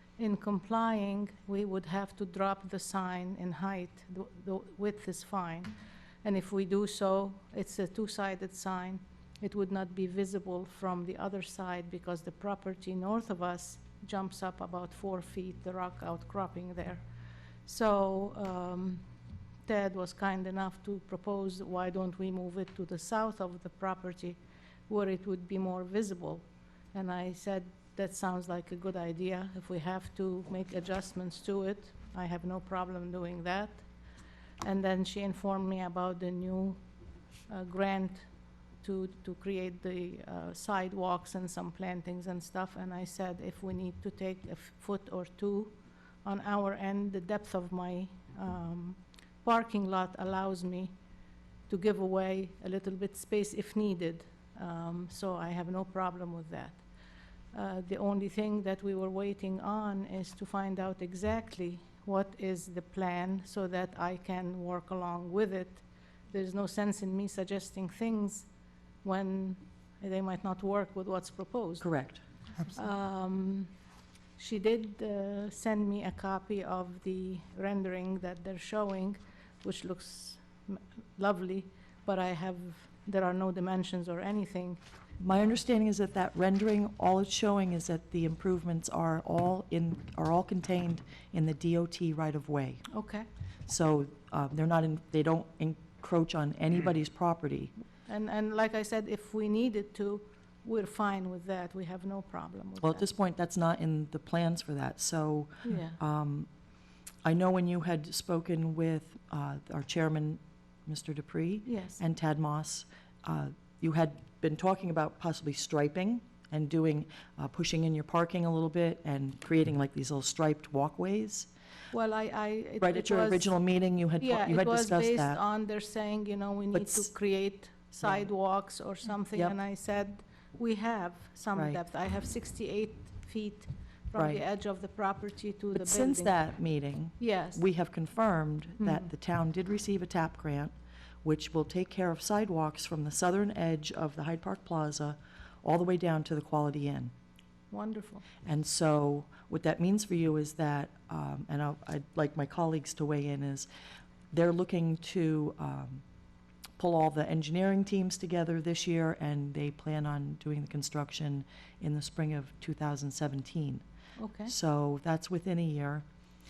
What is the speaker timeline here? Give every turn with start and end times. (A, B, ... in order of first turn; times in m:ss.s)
0:00.2-0:17.1 A
0:17.6-0:19.1 A
0:19.6-0:33.9 A
0:34.6-0:36.8 A
0:37.5-0:38.3 A
0:38.8-0:50.9 A
0:51.7-0:56.8 A
0:57.5-1:08.5 A
1:09.0-1:11.9 A
1:11.8-1:12.2 B
1:12.6-1:13.7 A
1:14.4-1:24.8 A
1:25.2-1:32.9 B
1:32.9-1:33.3 A
1:33.7-1:37.7 B
1:38.1-1:43.1 A
1:42.8-1:46.5 B
1:45.6-1:46.0 A
1:47.2-2:01.5 B
1:51.7-1:52.0 A
2:01.9-2:03.5 A
2:02.8-2:05.4 B
2:04.2-2:16.4 A
2:06.7-2:07.1 B
2:08.0-2:08.2 B
2:11.6-2:11.8 B
2:14.2-2:14.4 B
2:15.8-2:20.7 B
2:17.2-2:17.6 A
2:18.8-2:19.1 A
2:21.2-2:27.1 B
2:27.7-2:28.3 A
2:28.4-2:33.7 B
2:34.3-2:36.0 B
2:36.8-2:43.8 B
2:44.2-2:44.5 A
2:44.5-2:46.0 B